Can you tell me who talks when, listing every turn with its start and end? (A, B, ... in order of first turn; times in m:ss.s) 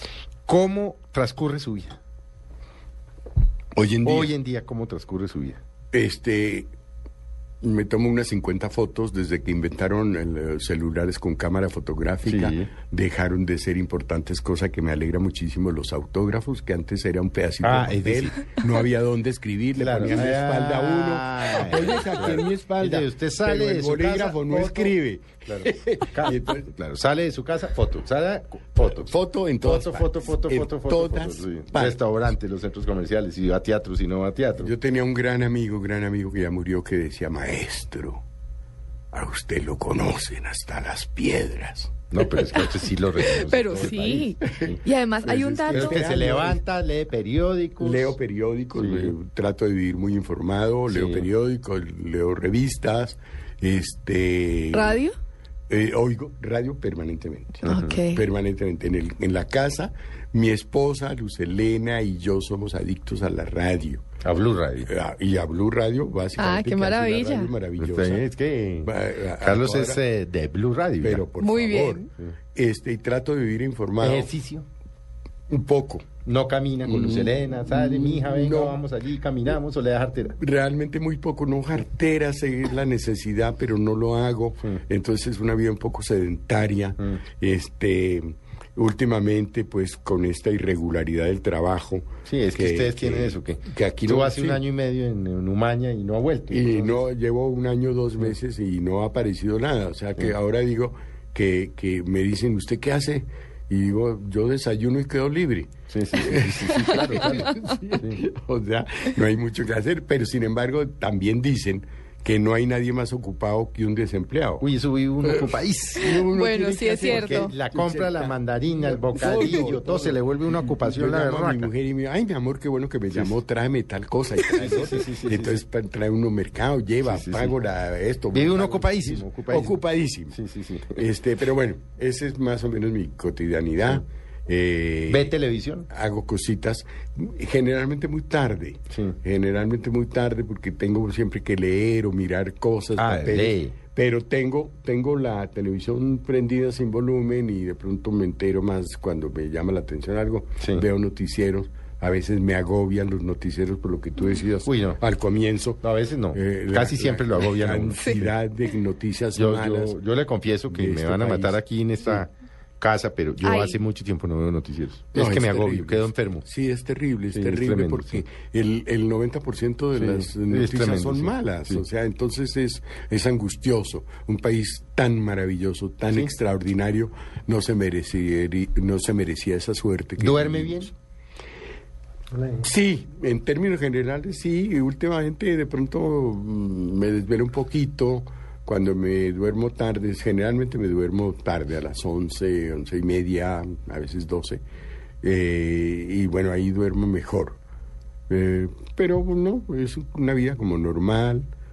0:00.5-0:02.0 A
0:03.7-0:04.3 B
0:04.0-0:05.6 A
0:05.9-0:06.7 B
0:07.6-0:26.7 B
0:12.2-0:12.7 A
0:17.6-0:18.4 A
0:19.8-0:24.9 A
0:25.5-0:34.7 A
0:28.8-0:32.0 B
0:34.6-0:38.2 B
0:39.1-0:42.5 B
0:42.1-0:44.8 A
0:42.5-0:46.1 C
0:44.4-0:46.6 B
0:45.7-0:48.2 A
0:47.8-0:55.0 B
0:48.7-0:49.1 A
0:50.9-0:51.3 A
0:54.7-0:55.2 C
0:55.7-1:04.0 B
0:57.6-0:58.0 A
0:57.6-0:58.2 C
1:04.2-1:04.9 A
1:04.8-1:08.2 B
1:06.4-1:07.5 C
1:07.8-1:11.2 A
1:08.8-1:10.0 B
1:11.0-1:14.3 B
1:11.4-1:12.1 C
1:14.0-1:14.6 A
1:15.5-1:16.0 B
1:16.2-1:20.4 A
1:16.8-1:18.8 B
1:20.4-1:34.6 B
1:32.2-1:37.0 A
1:36.5-1:54.6 B
1:45.9-1:48.2 A
1:54.6-1:56.2 A
1:55.2-2:10.4 B
1:56.0-1:57.5 C
1:57.0-2:01.7 A
2:03.1-2:03.3 A
2:04.5-2:05.6 A
2:07.0-2:07.5 A
2:08.3-2:09.8 A
2:10.3-2:11.0 A
2:11.0-2:15.3 B
2:15.1-2:15.9 A
2:15.9-2:35.8 B
2:18.9-2:19.2 A
2:23.0-2:23.8 A
2:30.6-2:30.8 A
2:34.6-2:35.0 A
2:35.8-2:38.3 A
2:36.3-2:40.0 B
2:39.3-2:46.4 A
2:40.7-2:42.2 B
2:43.4-2:43.8 C
2:45.1-3:00.9 B
2:47.3-2:48.2 A
2:50.0-2:51.8 A
3:00.2-3:00.9 A
3:02.3-3:02.6 A
3:02.6-3:14.6 B
3:15.2-3:17.6 B
3:18.3-3:21.5 B